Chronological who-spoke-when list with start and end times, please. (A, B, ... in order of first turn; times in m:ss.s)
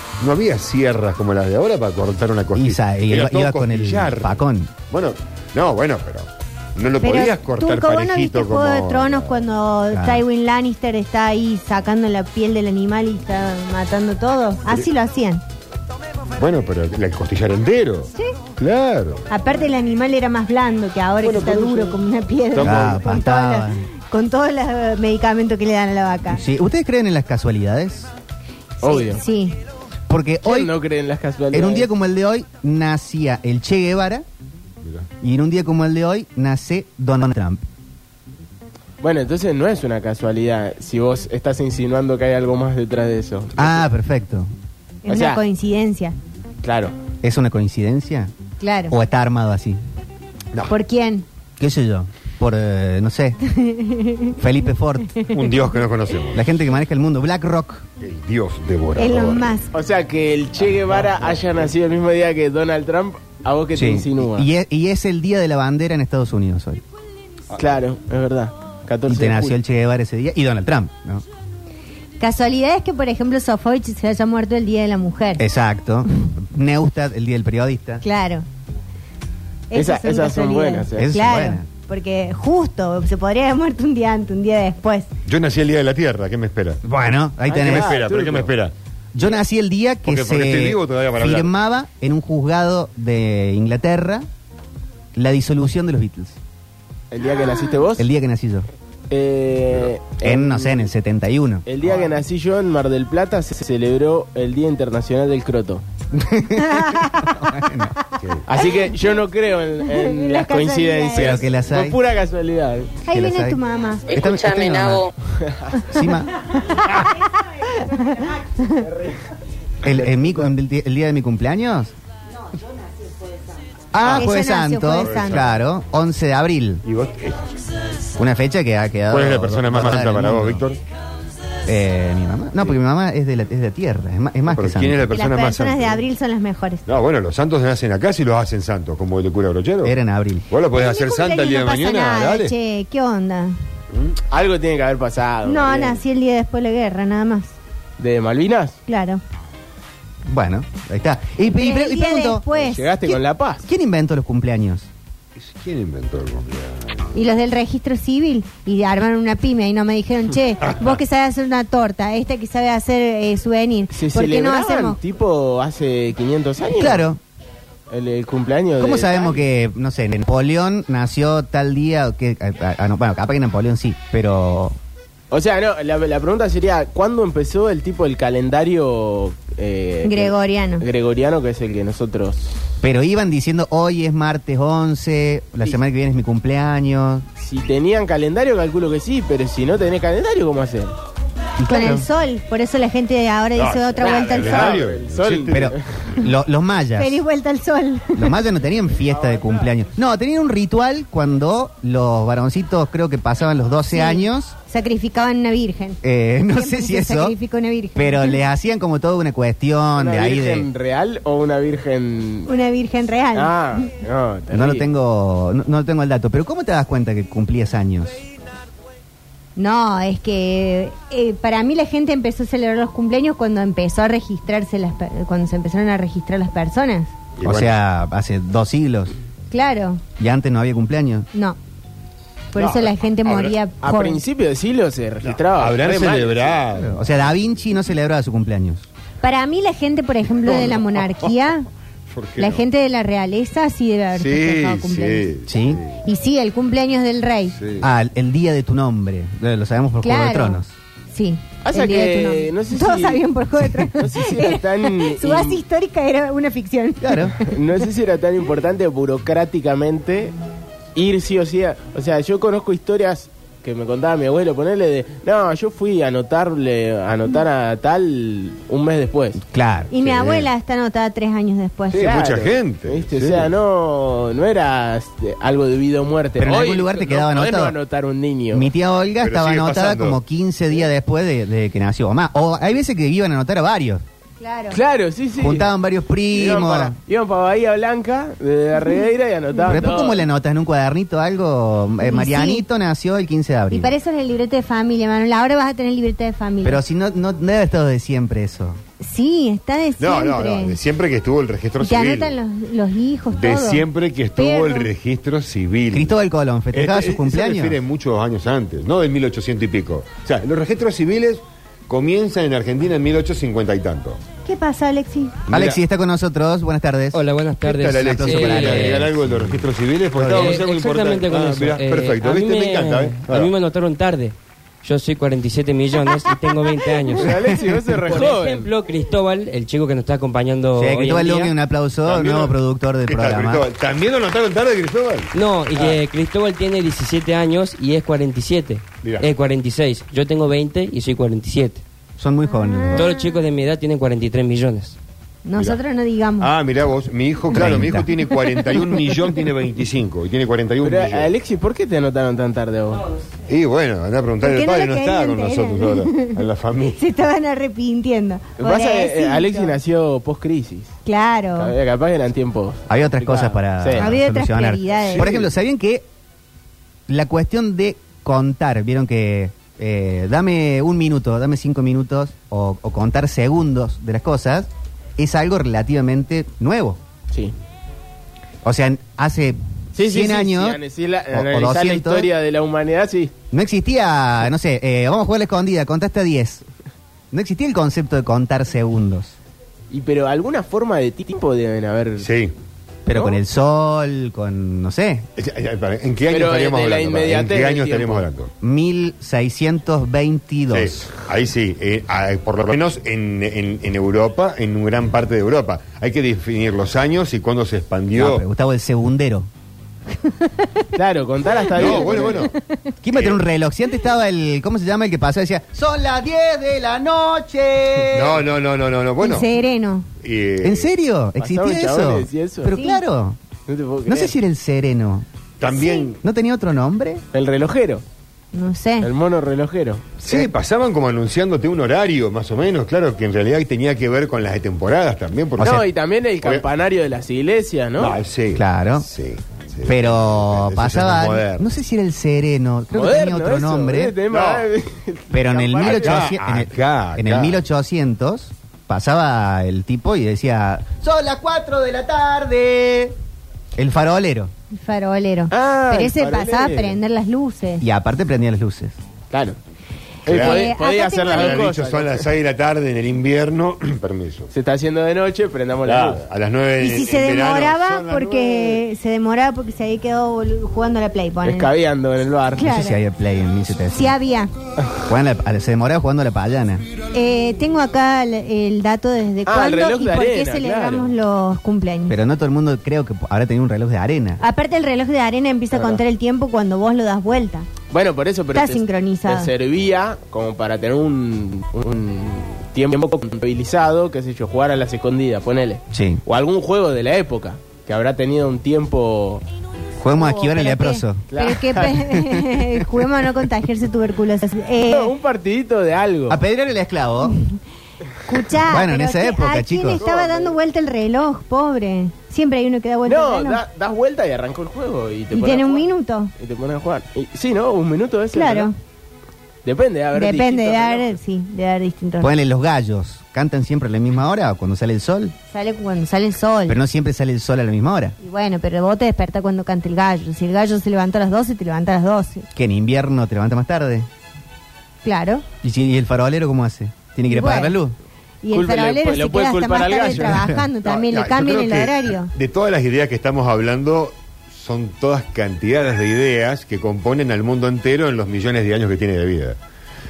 0:00.2-0:04.4 A
0:02.5-0:04.7 B
0:04.9-0:09.4 A
0:07.0-0:15.4 C
0:09.9-0:10.2 B
0:16.4-0:19.2 A
0:19.3-0:26.4 C
0:21.2-0:21.9 A
0:22.5-0:23.0 A
0:22.6-0:23.9 B
0:26.3-0:28.1 B
0:28.8-0:29.2 D
0:28.8-0:29.6 C
0:30.1-0:30.7 B
0:30.4-0:31.9 D
0:31.5-0:34.2 B
0:34.8-0:35.1 A
0:35.2-0:37.6 B
0:39.0-0:43.8 D
0:43.6-0:44.5 B
0:45.0-0:46.2 C
0:45.1-0:45.4 D
0:46.6-0:47.0 D
0:47.2-0:48.3 B
0:48.6-0:49.0 C
0:48.9-0:49.8 B
0:50.7-0:51.2 C
0:51.6-0:53.4 B
0:53.4-0:54.4 C
0:54.4-0:55.1 B
0:55.3-0:56.5 A
0:56.3-0:57.8 B
0:58.0-0:59.5 A
0:59.0-0:59.7 C
0:59.7-1:04.5 D
1:03.8-1:06.8 B
1:07.5-1:09.6 D
1:09.1-1:11.2 B
1:12.2-1:15.4 C
1:15.4-1:18.0 B
1:18.0-1:18.4 C
1:19.7-1:25.1 C
1:19.7-1:21.1 D
1:21.0-1:21.6 B
1:25.2-1:26.8 A
1:26.8-1:28.0 B
1:27.5-1:28.5 D
1:27.5-1:28.7 A
1:29.1-1:34.2 B
1:30.0-1:31.5 A
1:35.1-1:36.4 B
1:37.1-1:38.1 D
1:38.0-1:38.7 B
1:39.1-1:40.9 D
1:40.2-1:41.6 B
1:41.6-1:45.8 D
1:46.1-1:47.9 B
1:46.6-1:47.3 C
1:48.2-1:48.4 A
1:48.5-1:52.9 D
1:49.9-1:51.4 C
1:51.1-1:52.0 B
1:53.1-1:54.2 C
1:53.1-1:55.1 B
1:55.9-1:56.3 B
1:56.7-1:57.1 C
1:57.7-1:58.9 C
1:59.8-2:01.9 B
1:59.9-2:00.4 D
2:03.9-2:06.8 B
2:04.0-2:04.3 A
2:04.1-2:05.4 C
2:05.0-2:05.6 A
2:06.8-2:07.6 A
2:08.2-2:10.6 B
2:09.1-2:10.8 A
2:11.6-2:15.0 B
2:14.5-2:16.0 A
2:15.1-2:16.8 C
2:16.9-2:20.0 A
2:19.8-2:20.5 B
2:20.5-2:22.5 A
2:20.7-2:23.6 C
2:23.9-2:24.2 A
2:24.3-2:26.0 D
2:25.4-2:27.5 C
2:28.0-2:28.8 D
2:28.9-2:29.2 C
2:30.2-2:32.4 B
2:31.5-2:32.9 C
2:32.5-2:33.7 D
2:33.1-2:34.9 B
2:35.4-2:37.0 A
2:37.1-2:45.0 C
2:40.6-2:41.0 A
2:43.9-2:47.1 D
2:46.7-2:47.2 B
2:47.9-2:49.4 D
2:48.8-2:54.8 B
2:55.3-3:02.6 D
3:00.0-3:00.8 C
3:02.8-3:07.2 B
3:07.4-3:10.9 D
3:11.6-3:12.0 B
3:11.6-3:14.8 C
3:13.6-3:15.8 A
3:14.0-3:16.0 D
3:15.5-3:17.2 B
3:17.0-3:18.4 C
3:18.1-3:24.5 B
3:23.9-3:28.4 C
3:26.0-3:27.4 B
3:28.0-3:30.7 B
3:30.0-3:32.5 D
3:32.5-3:33.8 C
3:33.3-3:34.9 D
3:34.5-3:38.2 B
3:39.6-3:47.1 C
3:47.4-3:47.7 A
3:47.4-3:49.1 B
3:49.5-3:50.0 C
3:50.2-3:51.3 B
3:51.3-3:51.6 C
3:52.5-3:54.2 C
3:52.6-3:53.5 A
3:53.8-3:56.6 D
3:55.2-3:57.3 A
3:56.7-3:58.9 B
3:59.2-4:01.7 C
4:00.5-4:00.8 A
4:02.1-4:02.6 A
4:02.4-4:05.3 C
4:04.1-4:06.0 A
4:05.5-4:05.8 B
4:06.0-4:07.6 C
4:07.6-4:07.9 A
4:07.8-4:10.7 B
4:10.0-4:17.5 C
4:11.6-4:13.2 D
4:13.9-4:15.6 D
4:17.0-4:17.4 B
4:17.4-4:20.3 D
4:21.0-4:29.4 D
4:29.5-4:29.9 B
4:29.9-4:32.1 C
4:30.0-4:30.5 A
4:31.9-4:33.5 A
4:32.0-4:38.7 D
4:36.4-4:37.8 B
4:38.5-4:44.0 B
4:39.2-4:40.2 A
4:44.4-4:44.8 C
4:44.7-4:45.7 D
4:45.4-4:47.0 B
4:46.3-4:50.2 D
4:49.6-4:53.9 B
4:52.0-4:52.6 C
4:53.7-4:56.8 C
4:56.6-4:58.8 B
4:59.0-5:00.8 C
5:00.0-5:02.4 A
5:01.8-5:04.9 C
5:03.3-5:06.1 A
5:05.9-5:07.8 B
5:06.7-5:14.2 A
5:14.4-5:15.4 C
5:15.5-5:15.8 A
5:15.5-5:17.2 B
5:17.1-5:19.1 E
5:17.6-5:23.5 A
5:17.9-5:19.6 B
5:20.2-5:27.5 E
5:27.1-5:28.7 D
5:27.5-5:28.0 B
5:28.1-5:31.5 E
5:30.8-5:33.6 B
5:32.1-5:32.5 A
5:33.1-5:36.0 A
5:35.3-5:41.8 E
5:39.0-5:39.3 A
5:42.2-5:43.1 B
5:42.6-5:43.1 C
5:42.9-5:45.0 E
5:45.4-5:46.5 C
5:46.4-5:51.3 A
5:47.5-5:48.1 B
5:50.8-5:53.1 D
5:53.5-5:57.0 A
5:54.4-5:56.4 C
5:57.0-5:59.8 C
5:58.6-6:01.0 D
6:01.1-6:01.8 C
6:01.6-6:04.1 D
6:02.9-6:06.1 B
6:04.0-6:05.3 C
6:05.1-6:05.5 D
6:07.1-6:17.0 B
6:18.6-6:20.8 B
6:19.9-6:23.3 D
6:21.3-6:22.3 B
6:23.5-6:26.6 B
6:27.3-6:29.4 B
6:29.9-6:32.3 D
6:32.2-6:32.5 A
6:33.1-6:35.3 B
6:33.1-6:33.4 D
6:35.4-6:38.5 A
6:36.3-6:38.3 D
6:38.6-6:41.0 B
6:40.7-6:48.4 A
6:48.1-6:49.5 B
6:50.2-6:50.8 C
6:50.9-6:52.5 D
6:51.7-6:52.5 A
6:51.8-6:52.9 C
6:53.0-6:58.4 B
6:53.1-6:53.4 A
6:58.1-6:59.5 A
6:59.2-7:00.1 C
7:00.2-7:00.9 A
7:00.6-7:03.4 B
7:01.4-7:02.8 D
7:02.7-7:03.0 C
7:03.7-7:04.4 D
7:04.1-7:05.3 B
7:05.6-7:06.2 A
7:06.1-7:07.2 B
7:07.3-7:08.0 D
7:08.5-7:09.1 C
7:09.0-7:10.5 D
7:10.2-7:15.9 A
7:15.6-7:18.2 D
7:18.0-7:21.7 A
7:18.6-7:19.1 B
7:19.9-7:24.2 B
7:22.9-7:26.4 D
7:24.3-7:24.6 A
7:25.3-7:33.1 B
7:25.8-7:27.6 A
7:33.8-7:34.5 B
7:34.7-7:37.8 C
7:35.5-7:37.0 D
7:37.8-7:39.0 B
7:39.3-7:39.6 D
7:40.3-7:40.7 A
7:40.3-7:42.3 D
7:40.3-7:41.7 C
7:41.3-7:44.5 A
7:44.5-7:46.2 D
7:45.8-7:48.8 A
7:46.8-7:51.7 C
7:51.4-7:52.7 D
7:52.6-7:53.0 C
7:52.6-7:54.1 B
7:53.9-7:54.5 C
7:55.1-7:56.9 B
7:57.1-8:02.2 C
7:59.4-8:01.1 D
8:02.1-8:04.4 B
8:04.4-8:07.7 C
8:07.9-8:19.4 D
8:08.6-8:09.5 C
8:15.9-8:16.2 B
8:20.0-8:21.2 B
8:20.1-8:25.1 C
8:21.3-8:22.4 D
8:24.8-8:26.4 D
8:26.3-8:27.4 B
8:27.3-8:27.6 C
8:28.2-8:33.6 C
8:28.7-8:30.0 B
8:30.0-8:30.6 D
8:33.1-8:35.9 D
8:35.3-8:36.3 C
8:36.4-8:38.7 D
8:38.3-8:38.7 C
8:39.6-8:41.2 D
8:40.1-8:42.3 C
8:42.2-8:45.4 B
8:45.5-8:46.8 C
8:46.7-8:48.2 B
8:48.2-8:52.4 C
8:52.5-8:54.1 B
8:55.0-8:55.4 C
8:55.6-8:57.9 B
8:57.3-8:57.8 C
8:58.4-9:02.3 C
8:58.5-9:00.4 D
9:00.8-9:09.6 A